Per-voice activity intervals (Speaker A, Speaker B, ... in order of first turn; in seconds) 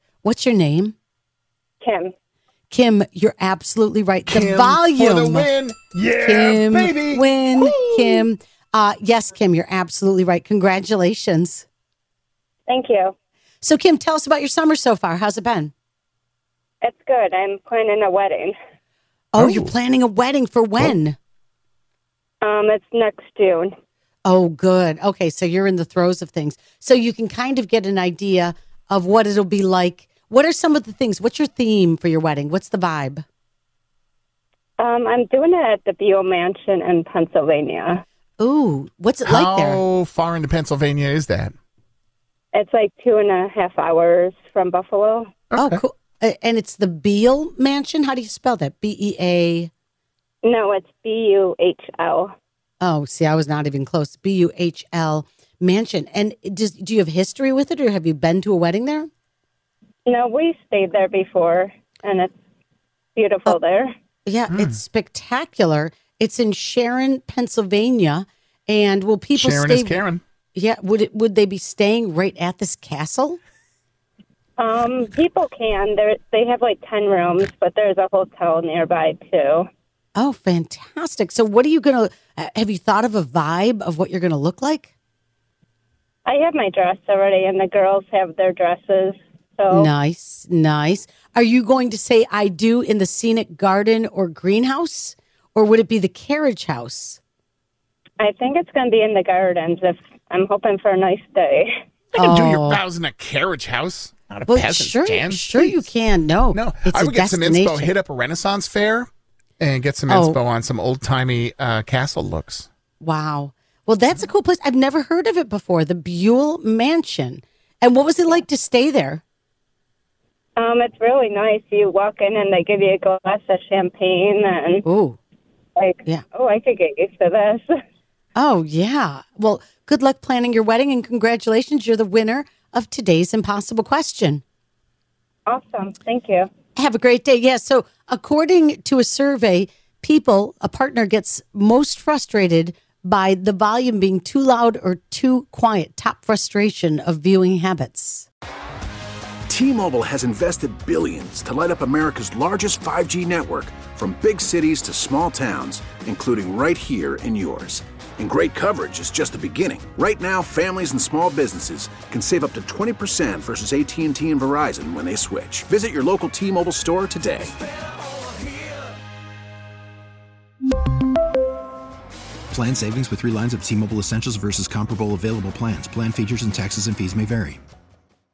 Speaker A: 0.2-0.9, 2.7-5.5, 6.2-11.7, 13.6-15.7, 19.3-21.2, 24.3-33.2, 38.4-39.8, 45.5-49.7, 52.8-59.1, 64.3-70.0, 70.5-73.4, 80.2-84.9, 89.7-97.2, 102.2-102.8, 104.5-107.9, 110.1-110.4, 113.0-119.2, 124.8-125.2, 128.4-134.4, 136.8-148.3
Speaker B: 1.8-2.1, 12.7-13.1, 16.8-18.6, 22.4-23.7, 34.8-38.0, 42.5-45.3, 50.4-52.3, 60.0-62.3, 63.1-63.9, 74.6-79.7, 86.3-89.9, 98.2-101.7, 120.6-124.8, 125.8-127.7, 135.5-136.5
Speaker C: 4.3-8.2, 19.4-19.7, 39.3-41.5, 45.5-45.8, 64.5-64.8, 69.4-70.2, 102.2-105.9, 106.5-109.1, 109.6-112.7
Speaker D: 149.5-167.5
Speaker E: 172.5-177.6